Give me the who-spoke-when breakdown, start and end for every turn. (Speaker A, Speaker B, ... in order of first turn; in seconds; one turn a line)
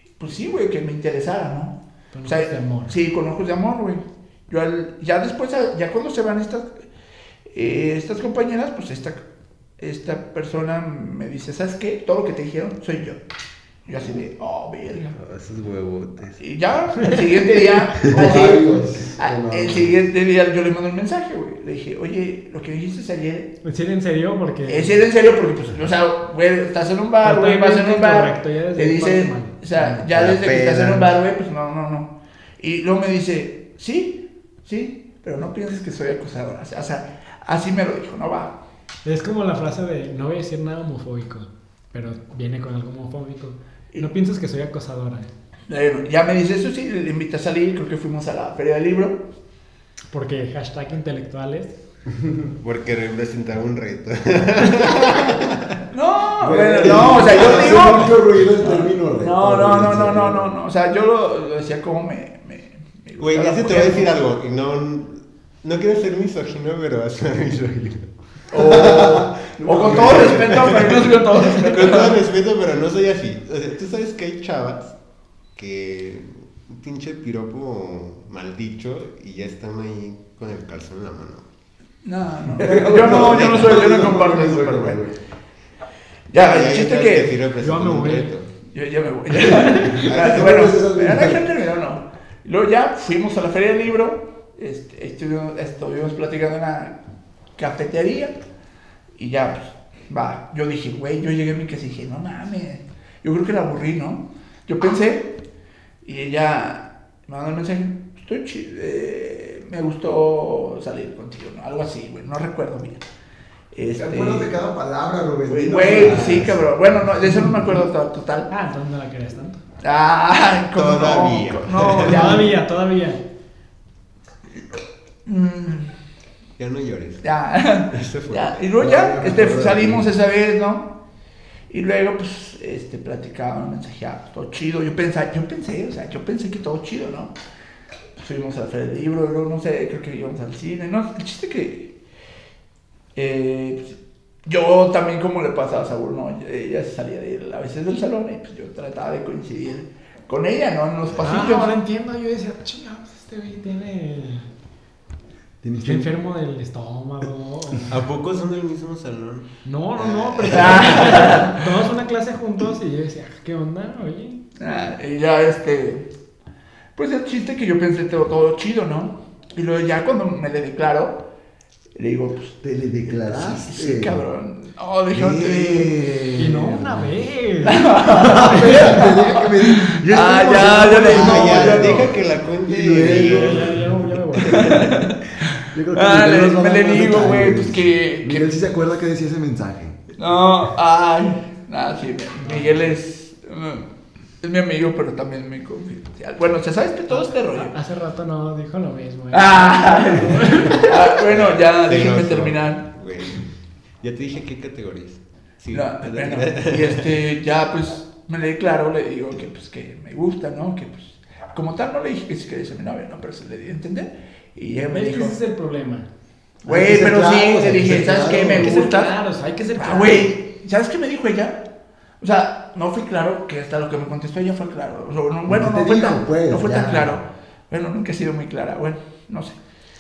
Speaker A: 0.2-6.7
Speaker B: 2.1-2.9
Speaker A: 7.5-9.2
Speaker A: 9.8-13.2
Speaker A: 13.8-15.2
Speaker C: 15.1-16.4
Speaker A: 16.4-23.5
Speaker D: 18.0-19.9
Speaker B: 23.6-24.9
Speaker A: 24.6-38.5
Speaker B: 27.2-30.0
Speaker C: 30.1-31.1
Speaker B: 39.0-45.3
Speaker A: 45.7-49.2
Speaker B: 50.1-51.8
Speaker C: 52.6-55.8
Speaker A: 55.9-64.2
Speaker D: 56.4-60.5
Speaker C: 56.8-58.1
Speaker C: 63.2-68.0
Speaker A: 68.5-72.2
Speaker D: 68.5-70.4
Speaker C: 68.6-74.9
Speaker C: 75.5-81.5
Speaker A: 82.0-85.0
Speaker D: 82.5-85.1
Speaker C: 82.9-84.6
Speaker A: 86.3-87.3
Speaker C: 86.3-88.5
Speaker B: 87.6-88.3
Speaker A: 88.7-97.0
Speaker C: 89.9-90.7
Speaker D: 90.1-91.5
Speaker A: 97.6-98.3
Speaker A: 99.1-105.3
Speaker A: 106.0-113.0
Speaker A: 113.7-114.5
Speaker D: 113.9-117.8
Speaker A: 115.5-118.5
Speaker B: 118.5-119.6
Speaker A: 119.8-122.5
Speaker C: 120.7-122.4
Speaker B: 122.0-123.2
Speaker A: 125.2-125.9
Speaker C: 126.6-127.2
Speaker A: 127.2-130.9
Speaker C: 127.9-128.6
Speaker D: 128.8-130.1
Speaker A: 131.7-137.3
Speaker A: 138.2-141.9
Speaker A: 143.1-151.8
Speaker B: 151.2-154.5
Speaker D: 155.6-156.1
Speaker B: 155.8-158.0
Speaker C: 157.9-159.5
Speaker B: 159.6-164.4
Speaker C: 160.0-161.4
Speaker A: 160.5-161.6
Speaker A: 164.6-166.1
Speaker A: 166.9-171.2
Speaker A: 171.9-172.6
Speaker D: 172.6-174.2
Speaker A: 173.1-175.9
Speaker D: 175.1-177.2
Speaker B: 176.3-179.1
Speaker A: 177.6-182.2
Speaker D: 178.0-184.9
Speaker C: 181.0-183.8
Speaker B: 183.0-184.9
Speaker A: 184.5-188.5
Speaker D: 185.7-190.0
Speaker A: 190.2-197.7
Speaker B: 192.4-192.8
Speaker B: 197.1-200.9
Speaker A: 199.3-202.8
Speaker C: 201.3-203.5
Speaker C: 204.0-207.2
Speaker A: 205.7-215.3
Speaker B: 214.9-216.1
Speaker D: 216.6-218.9
Speaker A: 216.6-219.1
Speaker B: 218.2-220.3
Speaker A: 219.8-221.6
Speaker A: 222.2-229.6
Speaker D: 225.5-227.2